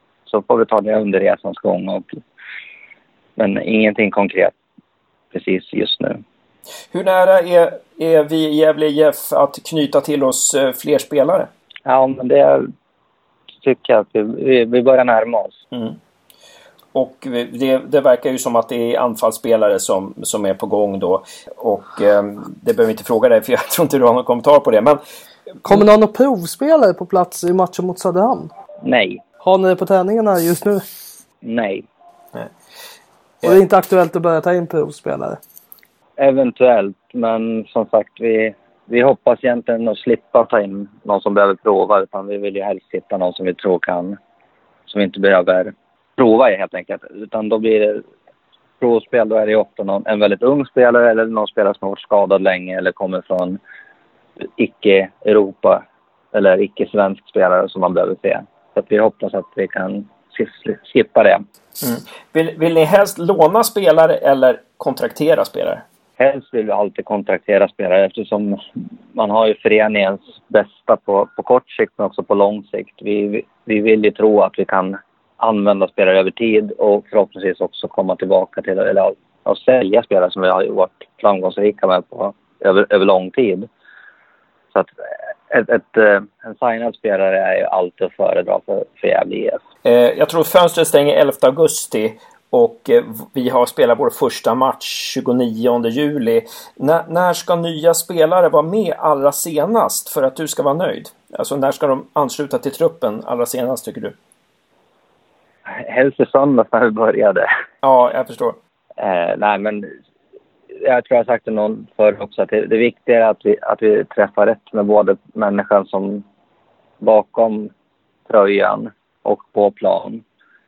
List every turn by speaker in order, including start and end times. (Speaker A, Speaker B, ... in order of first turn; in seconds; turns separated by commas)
Speaker A: 0.3-2.2, Speaker A: 3.4-4.5, Speaker A: 5.3-6.2, Speaker B: 6.9-11.5, Speaker A: 11.8-12.7, Speaker A: 13.6-15.6, Speaker B: 15.7-16.0, Speaker B: 16.9-25.0, Speaker C: 25.6-28.5, Speaker A: 28.8-29.2, Speaker C: 29.4-30.8, Speaker A: 31.4-31.8, Speaker C: 33.4-35.4, Speaker A: 36.2-44.2, Speaker A: 44.9-48.0, Speaker A: 48.8-53.6, Speaker A: 54.6-55.8, Speaker A: 56.3-61.4, Speaker B: 61.8-65.8, Speaker A: 66.2-68.6, Speaker A: 69.1-83.7, Speaker A: 85.5-89.6, Speaker B: 89.8-104.1, Speaker A: 105.7-107.5, Speaker B: 107.8-108.5, Speaker A: 109.0-109.9, Speaker A: 110.8-116.2, Speaker A: 117.0-117.7, Speaker A: 118.3-120.2